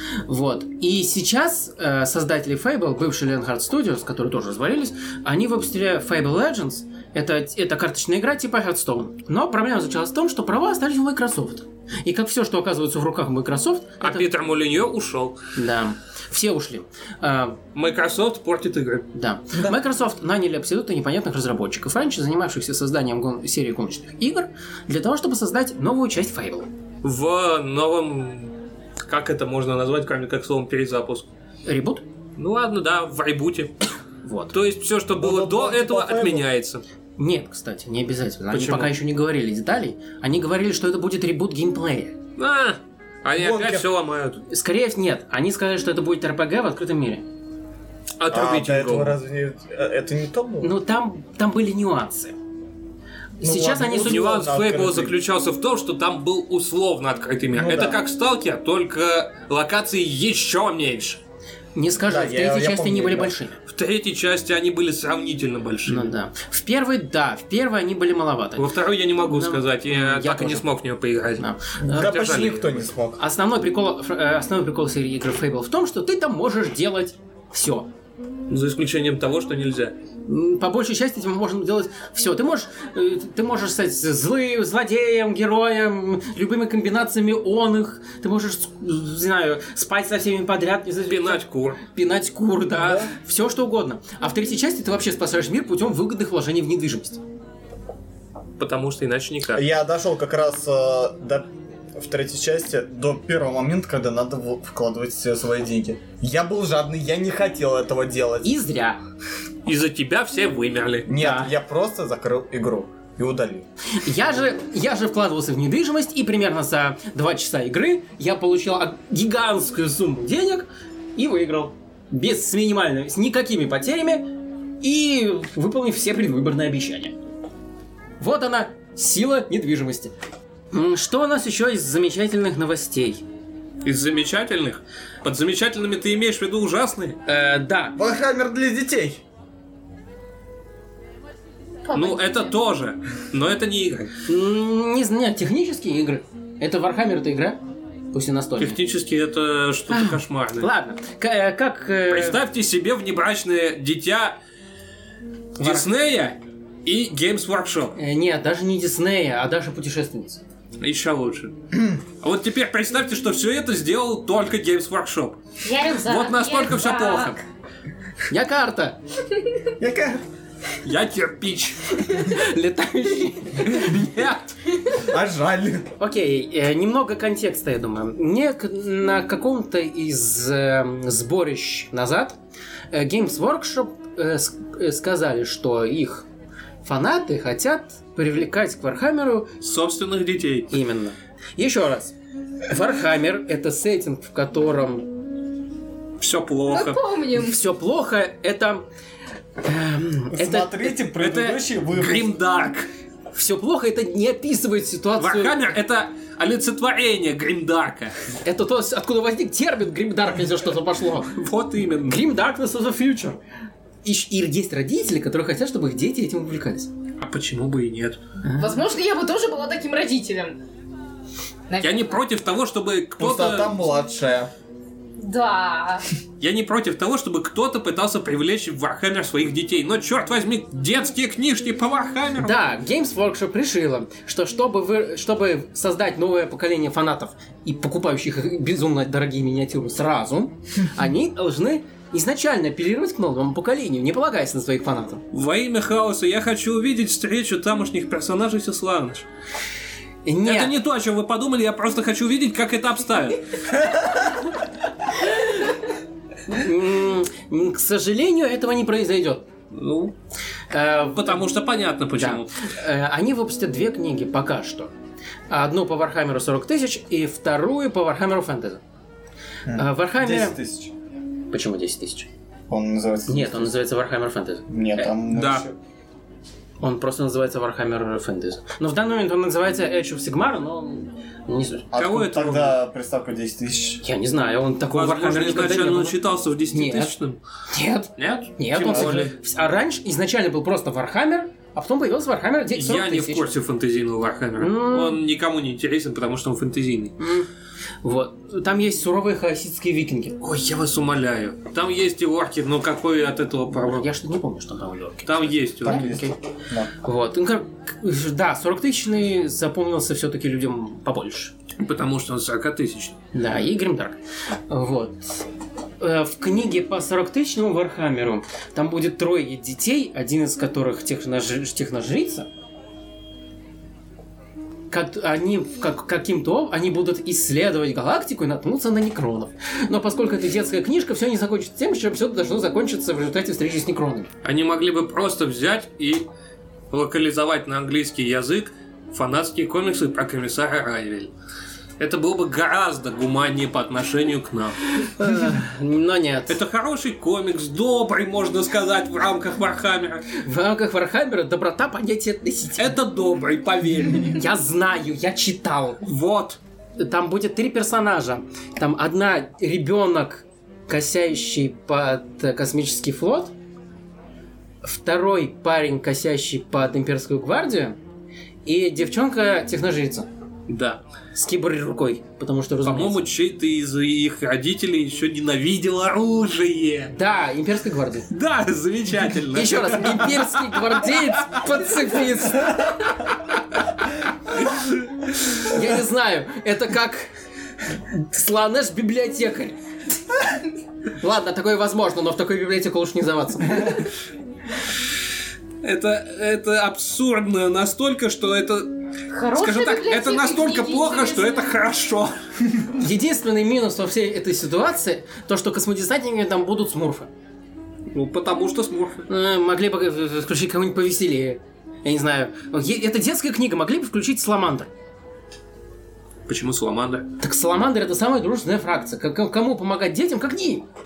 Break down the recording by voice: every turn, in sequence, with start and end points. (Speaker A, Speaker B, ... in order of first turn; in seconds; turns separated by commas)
Speaker A: 0.2-14.3, Speaker B: 14.0-15.4, Speaker A: 15.6-17.6, Speaker B: 17.7-19.1, Speaker A: 19.1-26.7, Speaker B: 27.0-28.5, Speaker B: 29.1-31.3, Speaker A: 31.7-32.0, Speaker B: 32.4-33.7, Speaker A: 34.2-34.5, Speaker B: 34.5-36.8, Speaker C: 35.1-36.5, Speaker A: 37.2-42.2, Speaker B: 38.5-38.9, Speaker B: 42.4-44.4, Speaker C: 43.4-43.9, Speaker A: 44.5-47.2, Speaker B: 48.2-49.2, Speaker C: 48.3-50.7, Speaker A: 50.6-52.4, Speaker A: 53.4-54.4, Speaker C: 53.4-55.1, Speaker B: 54.0-61.2, Speaker C: 57.5-58.0, Speaker A: 61.8-63.6, Speaker C: 62.0-63.3, Speaker B: 63.7-66.1, Speaker A: 65.9-68.7, Speaker B: 68.6-72.8, Speaker A: 69.2-70.7, Speaker A: 71.4-72.1, Speaker C: 71.8-73.2, Speaker A: 73.2-77.9, Speaker B: 78.5-80.0, Speaker A: 80.3-97.2, Speaker B: 91.1-91.8, Speaker C: 92.7-93.1, Speaker B: 98.6-99.6, Speaker C: 99.5-108.5, Speaker A: 108.4-109.0, Speaker B: 109.7-111.1, Speaker C: 111.1-113.7, Speaker A: 111.2-111.5, Speaker A: 113.9-124.3, Speaker A: 124.8-127.2, Speaker A: 128.2-130.1, Speaker A: 130.7-133.2, Speaker B: 133.8-137.2, Speaker A: 137.3-138.0, Speaker C: 138.0-139.2, Speaker D: 141.9-142.6, Speaker B: 141.9-144.1, Speaker A: 144.3-147.6, Speaker A: 148.1-148.8, Speaker B: 148.6-150.7, Speaker A: 149.9-152.4, Speaker B: 152.1-154.4, Speaker A: 155.6-155.9, Speaker B: 155.6-157.9, Speaker A: 158.0-160.4, Speaker B: 160.8-161.5, Speaker B: 162.2-165.4, Speaker D: 165.6-167.4, Speaker B: 165.9-167.4, Speaker A: 168.3-169.0, Speaker C: 169.8-170.2, Speaker B: 170.8-172.0, Speaker A: 172.1-174.5, Speaker C: 175.0-175.9, Speaker A: 176.0-182.4, Speaker A: 182.9-186.3, Speaker A: 186.8-189.5, Speaker B: 189.6-190.7, Speaker A: 190.7-192.1, Speaker A: 192.7-195.1, Speaker B: 196.2-197.0, Speaker D: 196.7-197.6, Speaker A: 197.4-198.9, Speaker A: 199.6-201.0, Speaker C: 200.3-202.3, Speaker B: 201.2-202.9, Speaker A: 203.3-205.6, Speaker B: 205.2-208.2, Speaker A: 208.4-211.4, Speaker B: 211.3-212.2, Speaker A: 212.1-213.4, Speaker A: 214.0-216.9, Speaker B: 217.2-218.2, Speaker A: 218.4-218.8, Speaker D: 218.6-220.6, Speaker D: 221.7-222.2, Speaker B: 221.8-223.8, Speaker C: 223.2-224.5, Speaker D: 225.2-226.1, Speaker B: 226.4-232.6, Speaker A: 232.4-245.2, Speaker B: 245.3-249.3, Speaker A: 250.2-250.7, Speaker B: 250.4-253.4, Speaker A: 256.5-259.5, Speaker B: 259.7-260.1, Speaker A: 260.7-261.4, Speaker B: 261.1-262.5, Speaker A: 262.2-264.9, Speaker A: 265.5-268.8, Speaker C: 269.7-270.9, Speaker A: 269.7-270.6, Speaker A: 271.5-272.3, Speaker C: 272.7-273.7, Speaker A: 273.3-275.1, Speaker C: 274.7-275.7, Speaker B: 275.3-275.6, Speaker A: 276.8-281.9, Speaker C: 281.9-284.0, Speaker B: 281.9-282.8, Speaker A: 284.0-286.2, Speaker B: 284.9-287.4, Speaker A: 286.7-287.1, Speaker A: 287.7-293.5, Speaker B: 288.2-289.3, Speaker B: 292.7-297.2, Speaker A: 294.6-295.2, Speaker A: 297.2-297.5, Speaker A: 298.0-300.4, Speaker B: 300.4-304.1, Speaker A: 303.7-306.4, Speaker B: 305.3-306.1, Speaker C: 305.8-306.9, Speaker A: 307.0-311.5, Speaker B: 311.8-313.2, Speaker A: 313.3-314.2, Speaker A: 314.7-315.5, Speaker A: 316.0-322.5, Speaker A: 324.9-334.3, Speaker B: 334.4-336.3, Speaker B: 336.9-341.3, Speaker B: 342.0-344.8, Speaker A: 345.0-346.6, Speaker B: 346.5-350.2, Speaker A: 350.3-353.0, Speaker B: 352.8-354.4, Speaker A: 354.2-356.0, Speaker B: 356.0-356.6, Speaker A: 357.0-363.5, Speaker A: 364.8-368.0, Speaker A: 368.7-370.3, Speaker B: 370.7-371.0, Speaker A: 371.3-373.2, Speaker B: 372.9-377.1, Speaker A: 377.1-378.3, Speaker B: 378.3-382.1, Speaker A: 379.5-383.1, Speaker A: 385.6-387.3, Speaker A: 388.1-389.8, Speaker A: 391.2-394.1, Speaker B: 395.8-398.9, Speaker D: 399.3-401.7, Speaker B: 399.5-402.4, Speaker A: 402.9-407.3, Speaker B: 408.1-409.3, Speaker A: 409.3-414.9, Speaker B: 416.5-417.3, Speaker A: 417.4-420.9